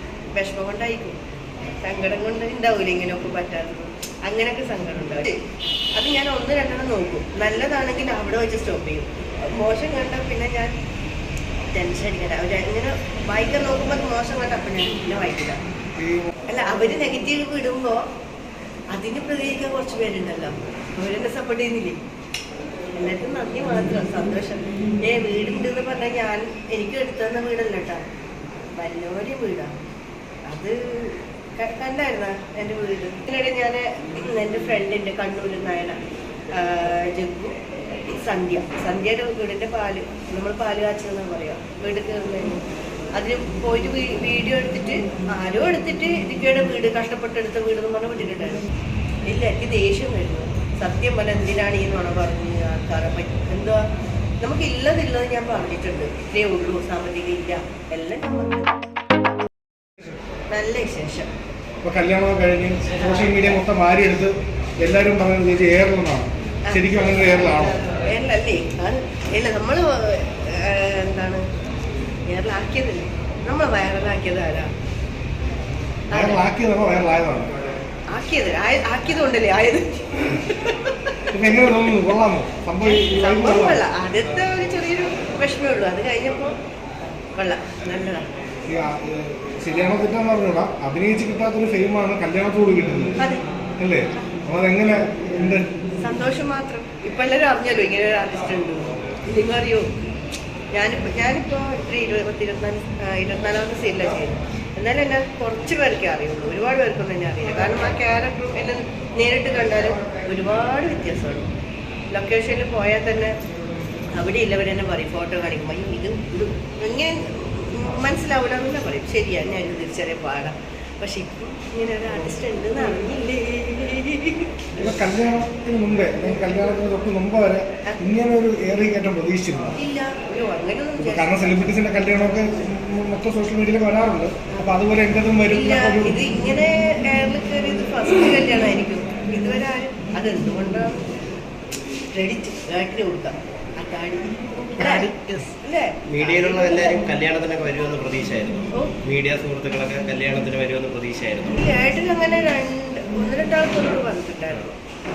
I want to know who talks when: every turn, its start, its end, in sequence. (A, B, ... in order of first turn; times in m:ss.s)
0:00.4-0:01.2 A
0:01.8-0:05.4 A
0:06.0-0:10.7 A
0:11.7-0:15.6 A
0:16.0-0:16.3 B
0:16.5-0:18.0 A
0:18.9-0:22.0 A
0:22.9-0:28.0 A
0:28.8-0:29.7 A
0:30.5-0:36.0 A
0:36.5-0:42.6 A
0:43.1-0:48.6 A
0:49.2-0:53.8 A
0:54.4-0:58.7 A
1:00.5-1:01.3 A
1:01.8-1:07.8 B
1:03.0-1:03.4 A
1:06.6-1:11.4 A
1:12.3-1:14.7 A
1:16.1-1:16.4 A
1:16.1-1:17.5 B
1:18.1-1:22.0 A
1:21.3-1:23.8 B
1:22.8-1:26.5 A
1:27.1-1:28.3 A
1:28.7-1:33.2 B
1:33.8-1:35.7 B
1:36.0-1:39.9 A
1:40.7-1:51.5 A
1:52.1-1:53.4 A
1:54.1-2:04.7 A
2:04.8-2:09.7 B
2:09.8-2:11.7 A
2:11.0-2:16.2 B
2:15.5-2:21.0 A
2:22.1-2:27.0 A
2:24.8-2:25.4 C
2:26.1-2:31.6 C
2:31.5-2:34.7 A